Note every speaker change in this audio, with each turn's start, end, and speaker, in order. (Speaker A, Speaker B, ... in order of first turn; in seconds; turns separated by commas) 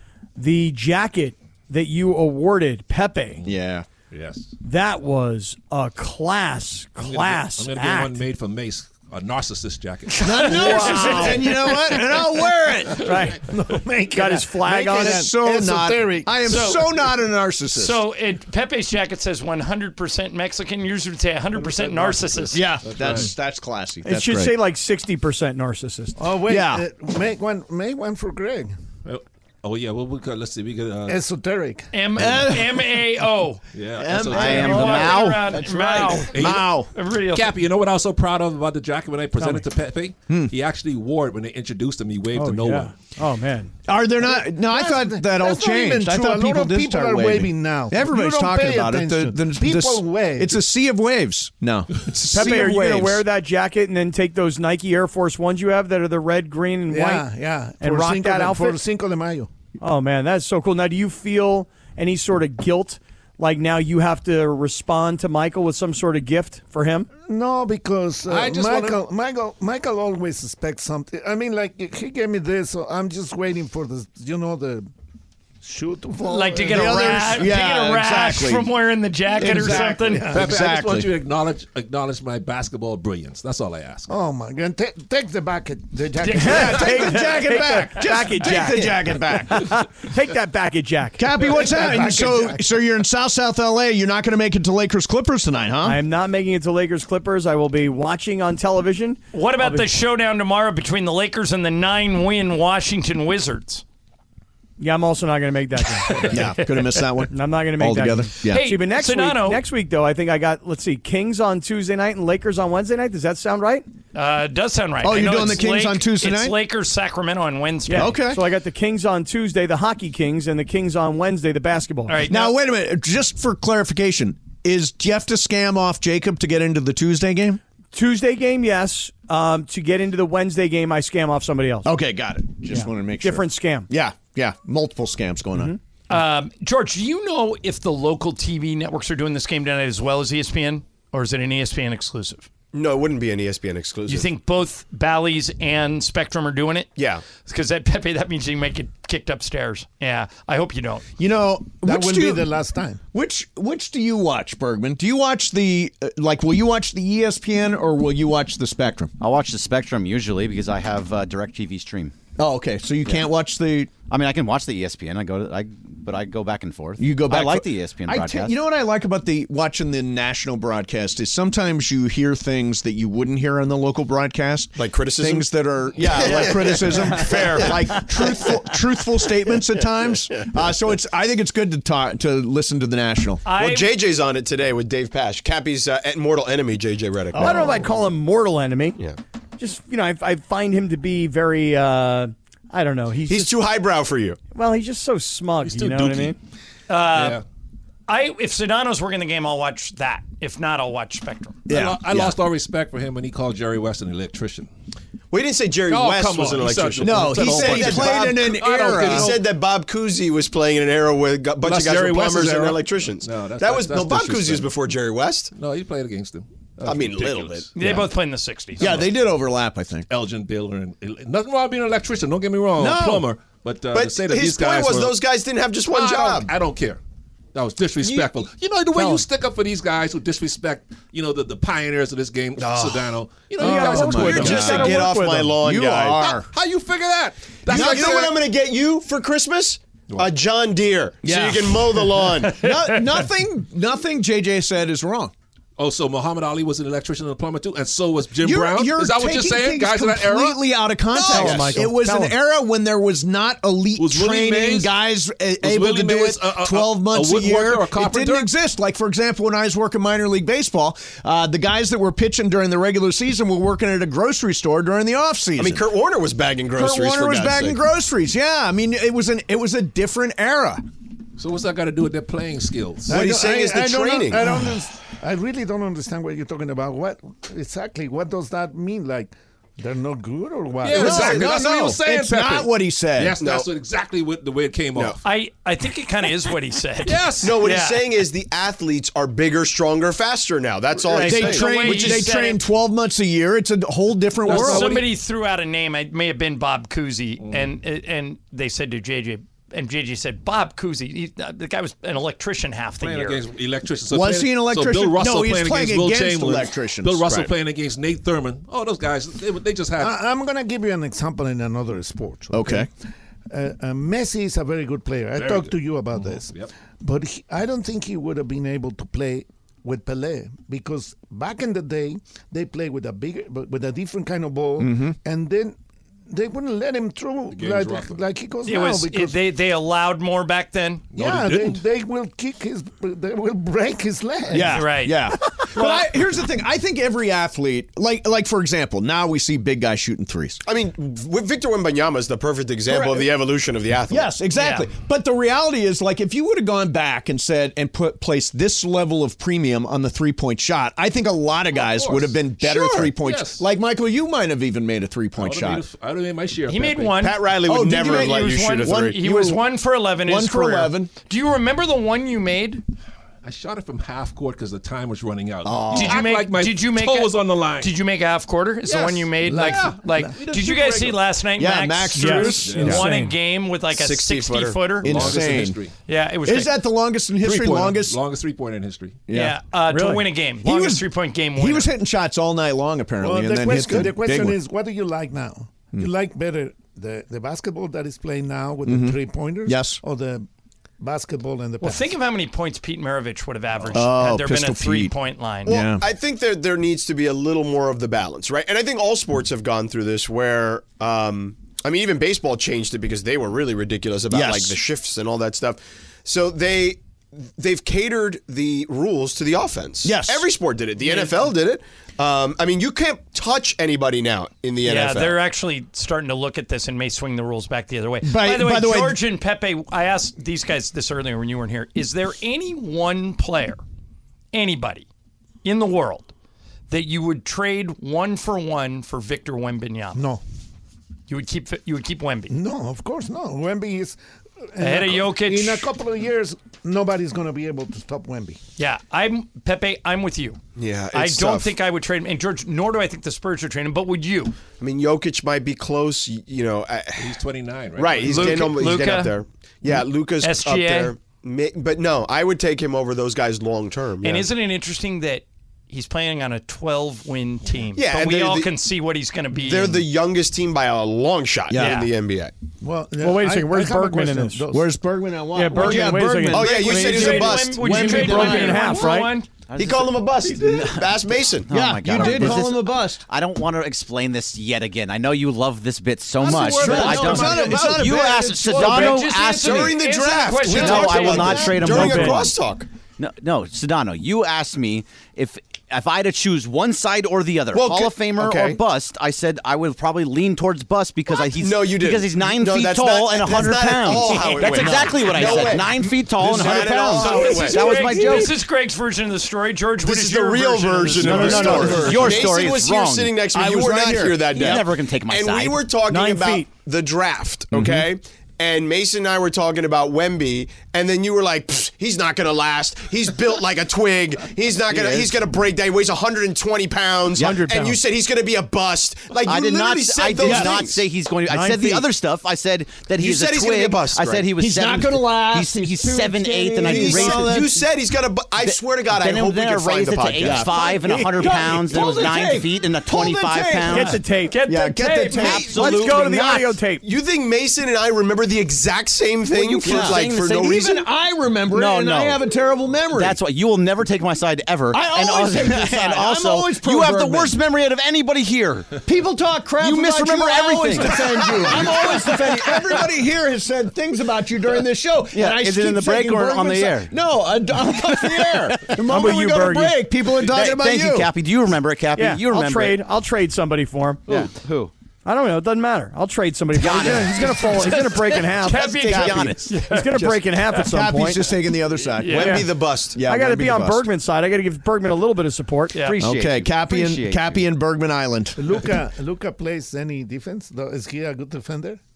Speaker A: 0.4-3.4, Speaker B: 3.4-3.9, Speaker C: 4.1-4.5, Speaker A: 4.6-8.2, Speaker C: 7.0-10.8, Speaker B: 10.2-13.1, Speaker D: 10.3-10.8, Speaker A: 10.5-11.4, Speaker E: 11.0-11.4, Speaker A: 13.0-13.4, Speaker D: 13.4-16.3, Speaker A: 14.1-15.2, Speaker B: 14.7-18.0, Speaker E: 16.4-17.2, Speaker E: 17.7-22.7, Speaker C: 22.4-23.3, Speaker B: 22.5-24.6, Speaker A: 24.1-26.2, Speaker D: 26.2-28.7, Speaker B: 26.5-26.9, Speaker C: 29.1-31.2, Speaker D: 31.1-31.9, Speaker E: 31.9-33.6, Speaker B: 32.2-32.9, Speaker C: 33.7-35.2, Speaker B: 34.0-36.9, Speaker F: 34.1-36.2, Speaker E: 34.3-37.5, Speaker C: 36.3-36.7, Speaker C: 37.3-42.9, Speaker A: 39.4-39.7, Speaker A: 42.4-43.7, Speaker B: 43.9-53.2, Speaker D: 44.2-50.6, Speaker A: 52.3-57.3, Speaker D: 56.9-59.5, Speaker A: 57.8-58.8, Speaker A: 59.8-67.1, Speaker D: 67.3-74.9, Speaker B: 68.3-68.8, Speaker D: 75.6-77.4, Speaker E: 76.2-80.3, Speaker B: 76.7-78.7, Speaker B: 79.3-81.2, Speaker D: 79.4-80.7, Speaker C: 80.4-84.1, Speaker D: 84.1-87.0, Speaker E: 86.3-86.6, Speaker A: 86.4-91.3, Speaker B: 86.4-89.8, Speaker B: 91.2-96.0, Speaker D: 91.4-92.6, Speaker A: 95.8-99.9, Speaker E: 99.3-103.8, Speaker A: 104.8-106.3, Speaker E: 106.1-107.1, Speaker B: 106.2-108.7, Speaker A: 107.3-113.8, Speaker E: 108.5-109.6, Speaker E: 114.1-118.2, Speaker B: 115.0-116.6, Speaker A: 117.9-122.2, Speaker B: 117.9-118.4, Speaker E: 122.1-122.5, Speaker B: 122.3-127.6, Speaker A: 127.9-131.9, Speaker B: 131.8-135.7, Speaker A: 132.7-133.9, Speaker E: 136.1-142.5, Speaker G: 142.7-144.3, Speaker E: 144.1-146.9, Speaker G: 147.0-147.2, Speaker E: 147.4-151.1, Speaker B: 151.2-152.5, Speaker D: 151.8-153.0, Speaker B: 153.1-159.1, Speaker F: 159.2-162.1, Speaker B: 162.4-163.9, Speaker F: 164.1-168.6, Speaker B: 167.0-183.4, Speaker G: 174.8-178.6, Speaker E: 183.4-183.9, Speaker G: 183.6-187.9, Speaker A: 187.3-189.0, Speaker A: 189.6-193.5, Speaker G: 193.3-194.4, Speaker A: 194.5-196.4, Speaker C: 195.7-196.3, Speaker E: 196.9-197.4, Speaker C: 197.1-197.4, Speaker E: 198.1-201.6, Speaker C: 201.7-204.7, Speaker B: 201.7-202.4, Speaker G: 205.3-215.5, Speaker C: 205.9-209.4, Speaker B: 207.0-209.4, Speaker C: 211.6-214.8, Speaker B: 212.3-212.7, Speaker C: 215.5-217.7, Speaker G: 216.8-217.7, Speaker E: 217.8-219.1, Speaker B: 217.8-218.1, Speaker B: 218.8-220.1, Speaker C: 218.8-219.1, Speaker C: 220.1-225.3, Speaker B: 222.8-223.3, Speaker G: 223.9-226.5, Speaker C: 225.9-227.0, Speaker C: 227.5-234.8, Speaker A: 228.9-229.2, Speaker G: 232.6-233.2, Speaker A: 233.6-235.6, Speaker B: 233.6-236.5, Speaker G: 234.1-236.4, Speaker C: 236.2-238.4, Speaker B: 237.7-238.4, Speaker G: 237.7-242.7, Speaker B: 241.2-245.3, Speaker E: 242.6-243.1, Speaker C: 245.8-250.6, Speaker B: 248.4-265.9, Speaker A: 251.2-252.4, Speaker G: 251.3-251.8, Speaker C: 254.0-254.9, Speaker C: 255.6-258.5, Speaker G: 265.6-267.8, Speaker B: 266.8-270.8, Speaker C: 271.4-273.2, Speaker D: 273.1-281.4, Speaker G: 273.1-274.6, Speaker B: 273.1-273.4, Speaker C: 280.8-285.2, Speaker G: 280.9-281.8, Speaker B: 280.9-283.4, Speaker G: 283.4-283.7, Speaker E: 285.2-288.1, Speaker C: 287.0-287.6, Speaker G: 287.4-292.4, Speaker A: 291.1-291.4, Speaker B: 291.1-295.0, Speaker E: 291.2-292.6, Speaker C: 294.4-295.1, Speaker E: 294.5-303.4, Speaker C: 297.4-297.7, Speaker C: 303.0-310.2, Speaker B: 304.1-307.3, Speaker D: 310.0-312.9, Speaker B: 312.5-312.9, Speaker D: 313.5-325.8, Speaker C: 315.4-316.7, Speaker B: 324.8-325.2, Speaker D: 326.3-329.4, Speaker C: 327.5-328.2, Speaker E: 328.7-331.1, Speaker C: 331.1-331.8, Speaker D: 331.1-334.9, Speaker B: 334.5-340.6, Speaker E: 334.6-336.0, Speaker G: 340.6-344.3, Speaker B: 342.9-343.3, Speaker B: 344.1-355.9, Speaker E: 344.5-344.9, Speaker C: 351.8-353.7, Speaker C: 355.4-357.3, Speaker E: 356.7-362.8, Speaker G: 357.2-359.1, Speaker B: 357.7-359.6, Speaker B: 360.2-361.1, Speaker C: 363.4-367.9, Speaker B: 365.6-366.2, Speaker E: 365.9-375.4, Speaker C: 368.9-371.2, Speaker D: 369.2-370.4, Speaker B: 371.6-373.0, Speaker A: 372.2-373.3, Speaker C: 372.6-373.0, Speaker G: 373.9-375.4, Speaker C: 375.0-375.9, Speaker B: 375.0-375.8, Speaker E: 376.1-376.7, Speaker B: 376.4-378.2, Speaker C: 377.4-379.2, Speaker B: 379.3-379.6, Speaker E: 379.3-381.9, Speaker A: 379.9-380.2, Speaker B: 380.6-384.6, Speaker D: 383.2-390.5, Speaker B: 388.9-390.0, Speaker D: 391.0-392.1, Speaker E: 391.8-395.8, Speaker B: 393.9-395.1, Speaker B: 395.6-396.1, Speaker G: 395.7-415.4, Speaker B: 404.3-404.8, Speaker B: 410.0-410.5, Speaker E: 411.0-411.5, Speaker E: 414.8-423.8, Speaker B: 418.2-419.2, Speaker E: 424.5-425.1, Speaker E: 425.6-426.3, Speaker E: 426.9-430.2, Speaker D: 430.1-430.4, Speaker E: 431.3-432.5, Speaker D: 432.5-434.2, Speaker D: 434.7-438.6, Speaker E: 434.8-435.9, Speaker E: 438.8-440.6, Speaker G: 440.8-441.7, Speaker E: 441.1-444.6, Speaker G: 444.8-447.4, Speaker C: 447.2-448.7, Speaker G: 448.0-454.5, Speaker E: 448.2-449.4, Speaker E: 449.9-451.1, Speaker E: 454.2-460.1, Speaker G: 458.0-458.7, Speaker G: 459.6-462.5, Speaker B: 461.7-462.0, Speaker E: 461.7-462.1, Speaker D: 462.8-464.9, Speaker A: 463.2-464.6, Speaker B: 464.7-469.0, Speaker A: 465.5-469.3, Speaker G: 466.5-468.6, Speaker E: 466.8-469.5, Speaker F: 469.7-480.0, Speaker G: 469.8-472.5, Speaker B: 471.7-473.2, Speaker B: 476.4-479.2, Speaker G: 476.5-478.1, Speaker E: 478.6-482.0, Speaker G: 478.8-482.9, Speaker F: 480.6-482.6, Speaker A: 481.9-482.4, Speaker F: 483.2-498.6, Speaker G: 487.7-488.8, Speaker G: 491.3-498.4, Speaker E: 494.4-495.6, Speaker B: 496.7-497.1, Speaker E: 497.0-502.4, Speaker G: 500.0-521.0, Speaker F: 501.2-503.4, Speaker B: 501.2-502.8, Speaker B: 503.5-504.8, Speaker F: 504.5-505.9, Speaker A: 506.1-506.7, Speaker B: 507.7-508.1, Speaker B: 515.0-515.2, Speaker A: 517.4-518.0, Speaker F: 519.5-527.7, Speaker B: 520.4-520.8, Speaker A: 521.5-522.1, Speaker G: 523.1-524.5, Speaker B: 524.5-527.8, Speaker G: 526.8-530.9, Speaker F: 528.6-534.2, Speaker B: 530.4-536.1, Speaker A: 533.9-534.6, Speaker E: 534.5-535.8, Speaker F: 535.3-536.7, Speaker A: 535.7-537.0, Speaker G: 537.0-541.1, Speaker F: 539.5-541.0, Speaker B: 539.8-543.4, Speaker F: 541.7-542.4, Speaker F: 543.1-549.0, Speaker B: 544.9-547.6, Speaker B: 549.0-561.3, Speaker F: 549.8-552.5, Speaker F: 555.3-557.1, Speaker F: 558.1-558.8, Speaker A: 559.1-560.0, Speaker F: 560.3-563.0, Speaker A: 562.2-564.3, Speaker F: 564.3-564.9, Speaker A: 565.2-569.3, Speaker F: 566.8-568.0, Speaker E: 568.6-570.2, Speaker F: 568.7-569.6, Speaker B: 569.1-574.0, Speaker A: 569.9-571.5, Speaker E: 572.0-572.6, Speaker G: 572.3-573.2, Speaker A: 572.4-572.7, Speaker A: 573.2-576.0, Speaker E: 575.9-576.3, Speaker F: 576.0-577.6, Speaker B: 576.2-578.6, Speaker D: 578.6-582.0